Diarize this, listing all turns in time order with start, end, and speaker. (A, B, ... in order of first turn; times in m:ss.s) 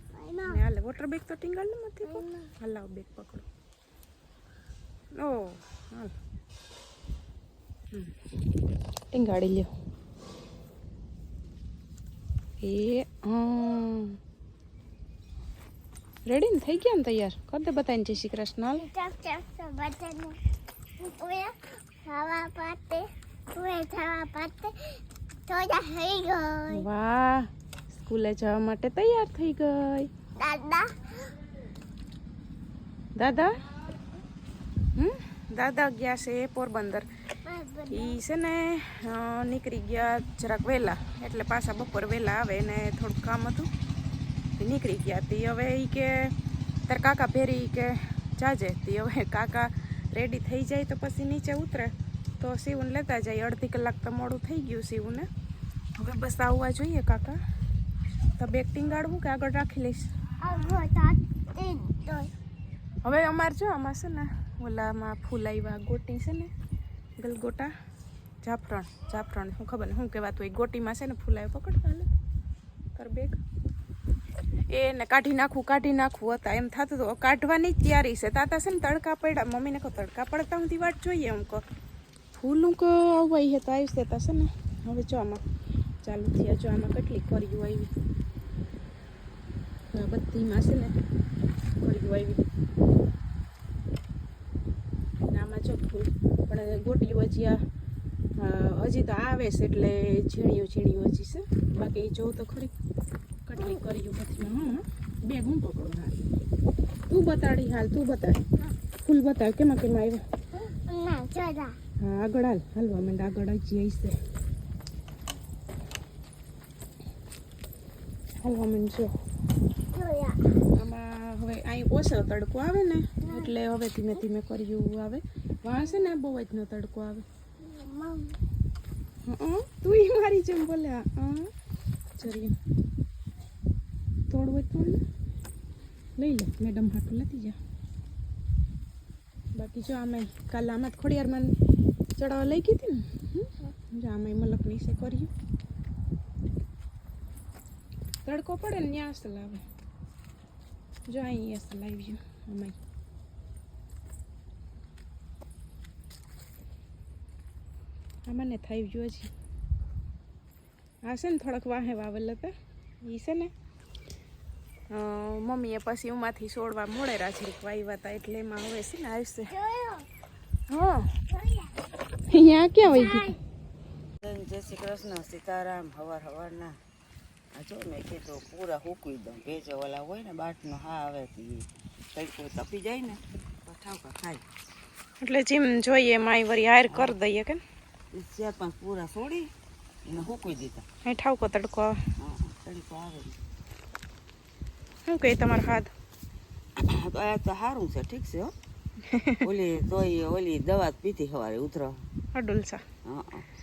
0:00.2-0:00.6 A
0:00.5-0:03.4 B
0:02.0-0:02.5 A
0:05.1-0:06.1 B
0:07.9-0:08.2 B
0:09.1-0:09.7 B
0:12.6-0:14.2 B
0:16.2-0:18.8 B
0:18.8-0:20.4 A
0:21.0-0:26.8 A
0:26.7-0:30.1 B
0:30.4-0:31.3 A
0:33.2-0:33.5 B
0:35.0-0:37.1 B
0:37.4-0:38.2 A
0:37.9-0:43.7 B
0:44.6-0:46.3 B
0:46.9-0:55.3 B
0:56.0-0:57.4 B
0:58.4-1:00.1 B
1:00.4-1:02.3 A
1:03.0-1:06.5 B
1:07.2-1:07.7 B
1:08.4-1:12.1 B
1:12.9-1:13.4 B
1:14.7-1:21.6 B
1:22.3-1:25.4 B
1:26.0-1:27.9 B
1:29.9-1:30.9 B
1:31.8-1:32.5 B
1:35.3-1:37.6 B
1:38.4-1:42.7 B
1:43.4-1:46.2 B
1:47.1-1:48.4 B
1:49.0-1:50.2 B
1:50.6-1:51.8 A
1:52.0-1:54.2 B
1:58.4-1:59.1 B
1:59.9-2:00.4 A
2:00.7-2:07.2 B
2:03.2-2:03.5 A
2:07.6-2:08.4 A
2:09.2-2:11.5 B
2:12.2-2:12.6 B
2:14.3-2:15.0 B
2:16.2-2:17.6 B
2:19.5-2:21.5 B
2:22.2-2:25.3 B
2:28.2-2:29.6 B
2:31.1-2:32.8 B
2:38.3-2:39.3 B
2:41.0-2:43.5 B
2:44.9-2:49.5 B
2:49.5-2:50.1 A
2:50.7-2:51.1 B
2:51.3-2:51.7 A
2:52.3-2:53.3 B
2:52.9-2:53.4 A
2:54.2-2:56.8 C
2:57.5-3:04.4 C
3:05.2-3:07.6 B
3:06.9-3:07.2 C
3:08.1-3:09.5 C
3:10.0-3:10.8 C
3:11.0-3:12.0 B
3:12.2-3:13.4 C
3:15.0-3:15.9 B
3:16.8-3:18.5 C
3:19.1-3:19.4 B
3:19.4-3:22.0 C
3:22.3-3:22.8 B
3:23.0-3:23.4 C